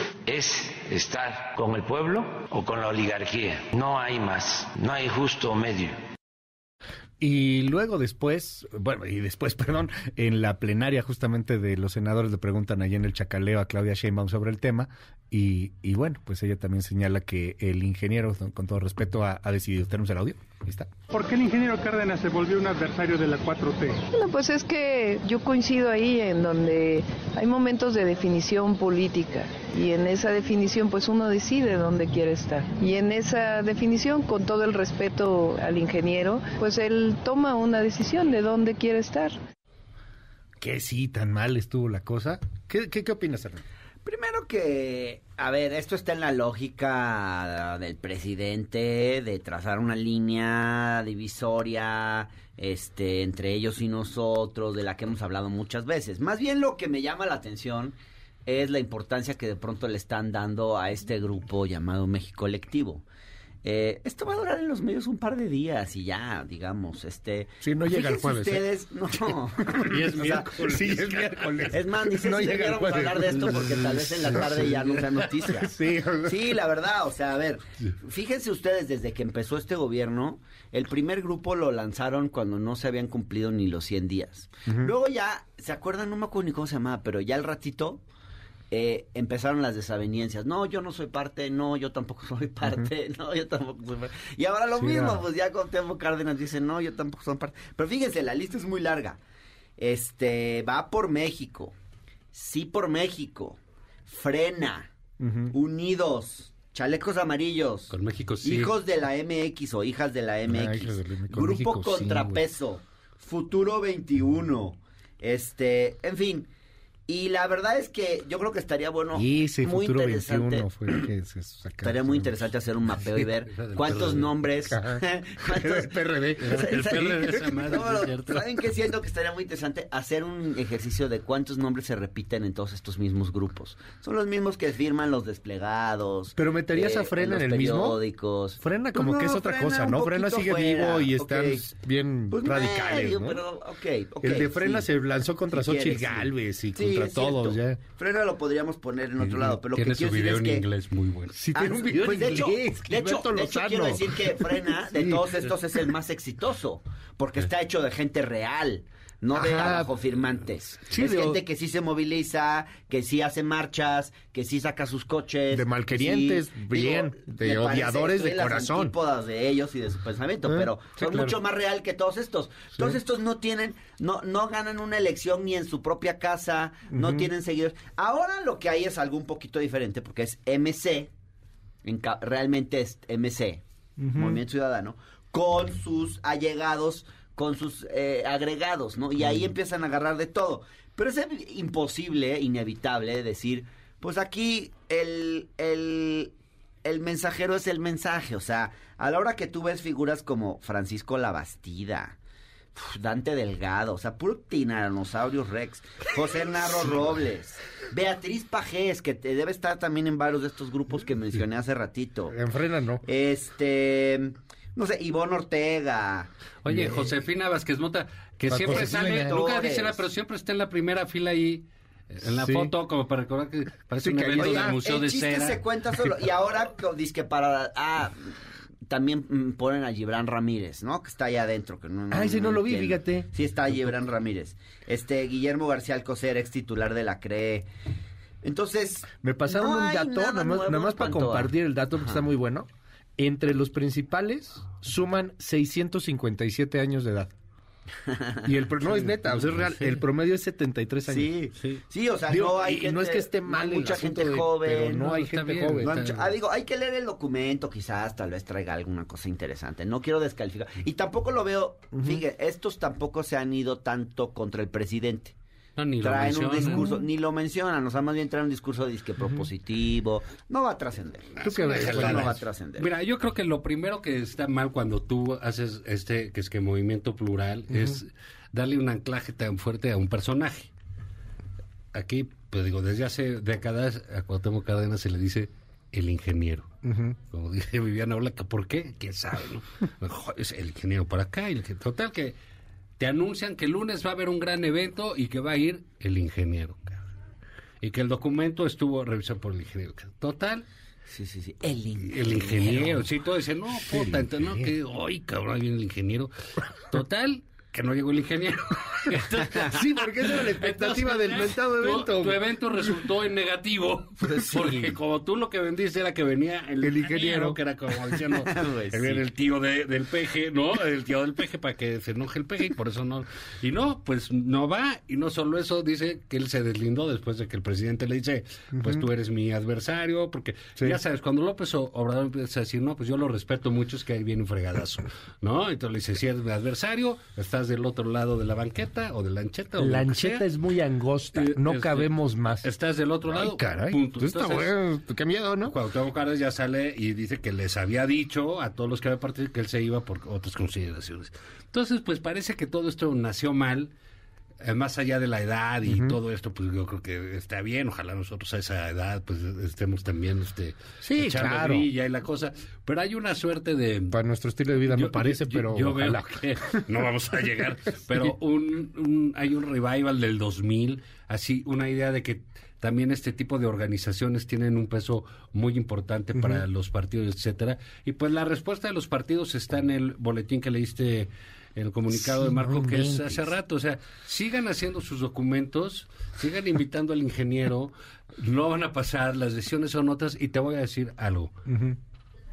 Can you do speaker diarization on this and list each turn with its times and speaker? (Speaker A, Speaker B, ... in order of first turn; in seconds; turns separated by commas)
Speaker A: 0.2-6.0, Speaker B: 7.2-20.9, Speaker C: 21.1-24.0, Speaker D: 24.1-39.4, Speaker B: 40.6-43.6, Speaker E: 44.0-63.0, Speaker E: 63.6-70.5, Speaker B: 67.6-68.7, Speaker B: 69.6-74.7, Speaker F: 69.8-71.7, Speaker E: 71.7-88.0, Speaker F: 74.3-75.1, Speaker B: 75.5-76.4, Speaker E: 88.7-99.2, Speaker B: 94.8-95.2, Speaker E: 99.8-101.7, Speaker E: 102.3-104.9, Speaker B: 105.2-105.5, Speaker E: 105.5-116.5, Speaker F: 107.9-108.7, Speaker B: 110.5-112.4, Speaker E: 117.1-121.0, Speaker B: 119.1-122.5, Speaker E: 121.8-141.6, Speaker F: 123.5-124.3, Speaker B: 124.7-127.1, Speaker F: 126.4-128.4, Speaker B: 136.3-138.0, Speaker B: 138.6-143.4, Speaker E: 142.3-144.9, Speaker B: 144.2-147.8, Speaker E: 145.5-150.6, Speaker F: 149.3-151.4, Speaker B: 151.3-154.8, Speaker E: 151.5-181.1, Speaker B: 159.3-159.9, Speaker B: 160.9-161.4, Speaker B: 165.5-168.9, Speaker F: 171.0-171.3, Speaker B: 176.9-177.3, Speaker E: 181.8-202.2, Speaker B: 184.0-184.4, Speaker E: 202.7-212.4, Speaker B: 212.3-213.0, Speaker E: 213.0-216.3, Speaker F: 216.6-225.6, Speaker B: 216.7-217.1, Speaker B: 218.5-219.4, Speaker E: 218.6-220.0, Speaker B: 222.2-222.7, Speaker B: 224.0-224.8, Speaker E: 224.4-228.3, Speaker E: 228.9-237.7, Speaker B: 232.1-233.3, Speaker E: 238.4-241.5, Speaker B: 239.2-247.3, Speaker E: 248.1-248.4, Speaker B: 248.4-251.3, Speaker F: 248.8-250.0, Speaker E: 251.1-255.1, Speaker B: 252.3-256.1, Speaker F: 255.0-256.3, Speaker E: 255.8-265.3, Speaker B: 261.9-262.2, Speaker F: 265.8-266.9, Speaker E: 266.0-272.9, Speaker B: 266.7-267.0, Speaker F: 271.4-280.7, Speaker B: 271.4-272.4, Speaker B: 277.7-278.0, Speaker F: 281.9-286.7, Speaker B: 286.8-287.2, Speaker F: 287.3-292.4, Speaker F: 293.0-297.0, Speaker F: 297.8-300.6, Speaker E: 301.1-303.0, Speaker F: 302.1-306.3, Speaker B: 303.9-304.7, Speaker F: 306.9-340.5, Speaker B: 309.6-312.4, Speaker E: 314.3-314.9, Speaker B: 316.8-317.6, Speaker E: 318.4-319.2, Speaker B: 339.8-342.7, Speaker F: 341.3-344.7, Speaker B: 343.3-345.8, Speaker F: 345.6-353.9, Speaker F: 354.6-364.1, Speaker B: 355.9-356.1, Speaker B: 361.0-361.9, Speaker B: 364.1-366.8, Speaker F: 364.9-391.5, Speaker B: 376.4-376.6, Speaker B: 382.2-383.4, Speaker B: 391.7-392.0